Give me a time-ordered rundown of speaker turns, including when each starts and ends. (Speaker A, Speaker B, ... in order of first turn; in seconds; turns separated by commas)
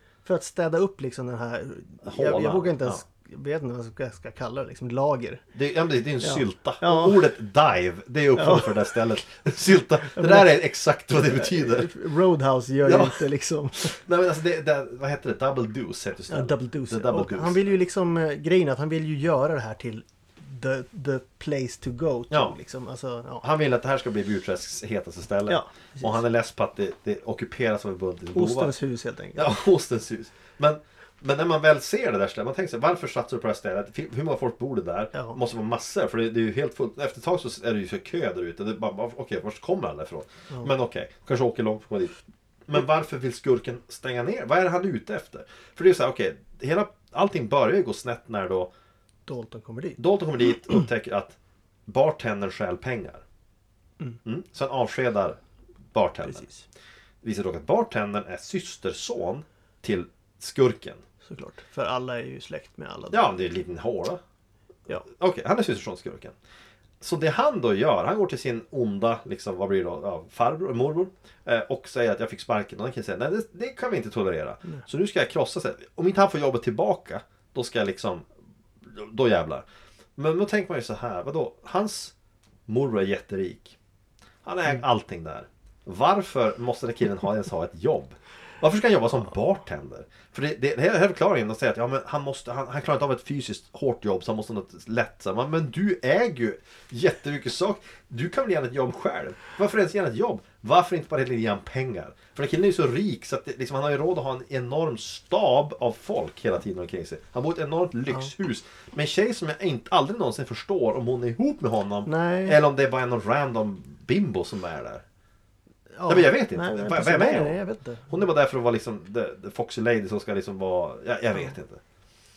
Speaker A: 0.3-5.4, Speaker B: 2.0-3.0, Speaker B: 5.5-11.9, Speaker A: 6.2-7.3, Speaker A: 8.4-9.0, Speaker A: 10.1-14.0, Speaker B: 12.8-13.2, Speaker B: 13.8-17.7, Speaker A: 16.3-23.4, Speaker B: 22.3-22.6, Speaker B: 23.4-28.7, Speaker A: 25.5-26.2, Speaker A: 28.4-29.4, Speaker B: 29.4-42.2, Speaker B: 42.7-48.7, Speaker A: 49.3-50.0, Speaker B: 50.0-51.4, Speaker B: 51.9-53.2, Speaker B: 54.2-55.4, Speaker B: 55.9-56.5, Speaker A: 56.2-56.6, Speaker B: 57.2-61.0, Speaker A: 61.2-63.3, Speaker B: 63.1-64.2, Speaker B: 65.0-66.3, Speaker B: 67.0-78.3, Speaker B: 78.9-79.7, Speaker B: 80.2-82.1, Speaker B: 82.7-83.8, Speaker B: 84.4-115.0, Speaker A: 112.1-112.6, Speaker A: 116.0-118.2, Speaker B: 116.1-117.6, Speaker B: 118.1-121.8